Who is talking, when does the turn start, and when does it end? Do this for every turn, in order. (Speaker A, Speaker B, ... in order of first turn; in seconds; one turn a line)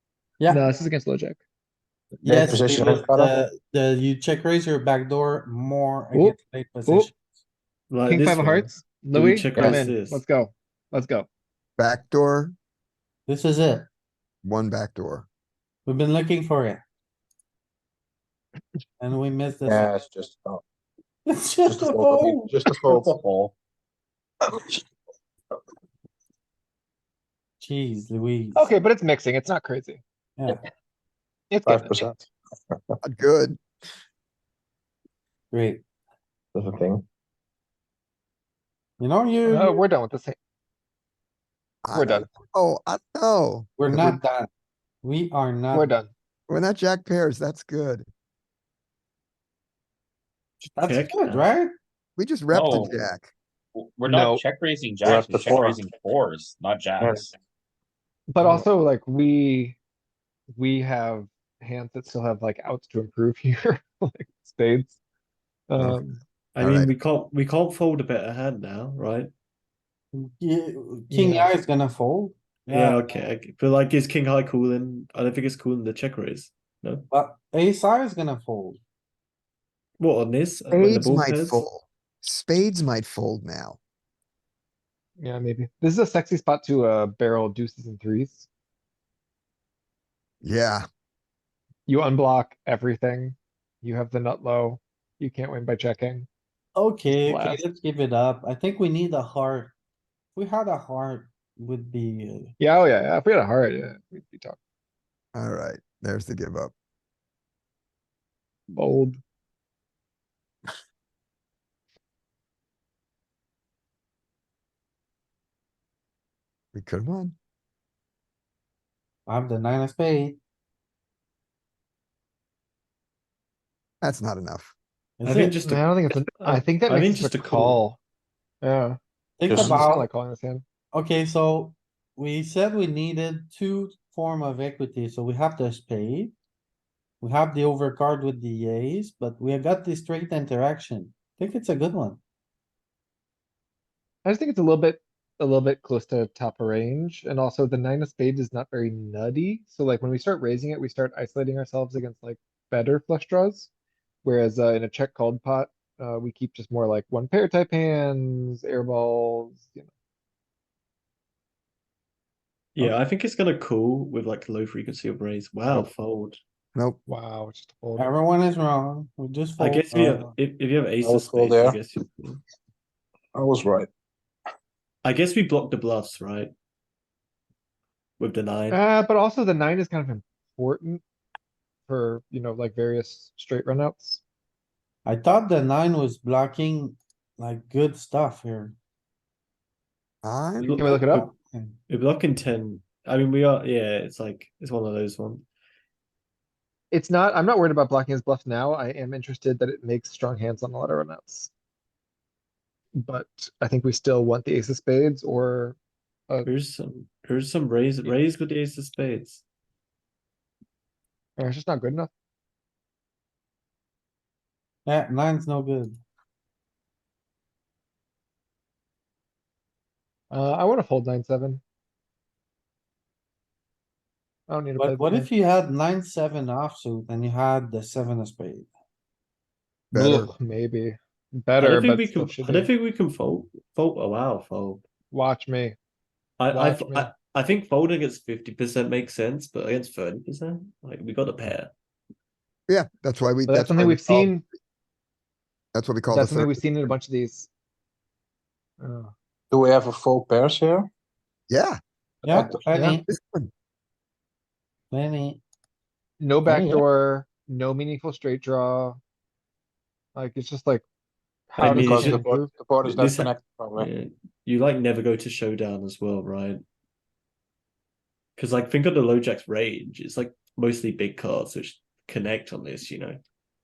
Speaker A: 0.5-1.4
Speaker B: 2.2-7.2
Speaker C: 2.2-3.4
Speaker A: 6.1-7.1
Speaker D: 7.9-10.2
Speaker A: 8.1-11.3
Speaker E: 11.8-12.5
Speaker B: 13.3-13.9
Speaker E: 14.4-15.3
Speaker B: 15.8-16.8
Speaker B: 19.0-20.0
Speaker C: 19.6-20.6
Speaker B: 21.3-23.0
Speaker C: 21.6-23.2
Speaker F: 23.1-23.5
Speaker B: 27.6-28.7
Speaker A: 28.6-30.0
Speaker A: 31.5-32.0
Speaker C: 31.6-32.9
Speaker E: 33.0-33.6
Speaker B: 35.5-35.8
Speaker C: 36.5-37.0
Speaker B: 39.0-39.8
Speaker A: 39.5-40.4
Speaker E: 41.8-44.2
Speaker A: 41.9-42.2
Speaker B: 43.8-44.5
Speaker B: 45.0-45.9
Speaker A: 45.7-46.1
Speaker E: 46.5-48.0
Speaker B: 50.6-51.7
Speaker D: 50.8-51.5
Speaker E: 52.2-53.3
Speaker F: 52.5-53.0
Speaker F: 53.7-57.4
Speaker A: 54.1-54.4
Speaker C: 55.0-55.8
Speaker C: 57.0-57.3
Speaker A: 58.3-59.8
Speaker A: 60.5-65.0
Speaker A: 65.7-66.2
Speaker D: 66.5-69.3
Speaker E: 66.6-66.9
Speaker B: 70.1-73.0
Speaker A: 71.1-71.5
Speaker D: 72.7-77.1
Speaker B: 77.1-78.8
Speaker D: 80.0-81.7
Speaker E: 80.7-83.8
Speaker A: 85.2-88.5
Speaker E: 90.4-90.8
Speaker A: 91.9-96.3
Speaker B: 96.8-99.7
Speaker A: 97.1-97.6
Speaker B: 100.3-102.5
Speaker A: 102.6-104.6
Speaker E: 105.3-106.7
Speaker A: 108.7-109.2
Speaker E: 116.7-117.3
Speaker B: 119.3-120.4
Speaker E: 124.0-124.7
Speaker B: 125.2-125.6
Speaker D: 125.2-127.8
Speaker A: 125.6-128.0
Speaker A: 128.6-129.0
Speaker B: 129.4-130.0
Speaker C: 129.5-129.9
Speaker A: 129.5-130.6
Speaker B: 130.9-136.3
Speaker B: 137.2-142.2
Speaker A: 144.2-153.7
Speaker A: 154.2-159.9
Speaker D: 162.7-166.4
Speaker E: 166.7-167.0
Speaker A: 167.1-168.1
Speaker B: 168.0-170.3
Speaker D: 169.6-172.4
Speaker C: 171.0-171.8
Speaker C: 173.3-173.9
Speaker D: 175.0-176.5
Speaker D: 178.2-178.8
Speaker A: 178.7-181.0
Speaker A: 181.9-184.2
Speaker B: 185.1-188.7
Speaker E: 190.2-190.8
Speaker D: 190.6-191.3
Speaker A: 190.8-191.3
Speaker D: 191.9-195.4
Speaker A: 196.9-201.5
Speaker A: 203.0-205.8
Speaker D: 206.4-209.4
Speaker A: 211.4-212.1
Speaker B: 214.8-216.0
Speaker A: 220.3-221.6
Speaker A: 224.5-225.3
Speaker B: 224.8-228.7
Speaker E: 229.9-230.3
Speaker A: 229.9-232.7
Speaker D: 231.6-234.8
Speaker A: 235.1-235.8
Speaker D: 236.4-241.7
Speaker A: 236.5-237.1
Speaker E: 242.7-244.4
Speaker A: 243.5-244.4
Speaker E: 245.7-246.6
Speaker A: 246.1-247.5
Speaker A: 248.8-249.1
Speaker C: 249.5-250.9
Speaker E: 251.5-251.8
Speaker B: 252.2-253.1
Speaker A: 252.7-253.0
Speaker E: 253.1-253.5
Speaker B: 254.9-255.4
Speaker A: 256.2-259.0
Speaker C: 256.5-256.8
Speaker A: 260.1-260.8
Speaker A: 261.5-262.5
Speaker D: 261.6-266.6
Speaker C: 261.6-263.9
Speaker D: 268.4-273.2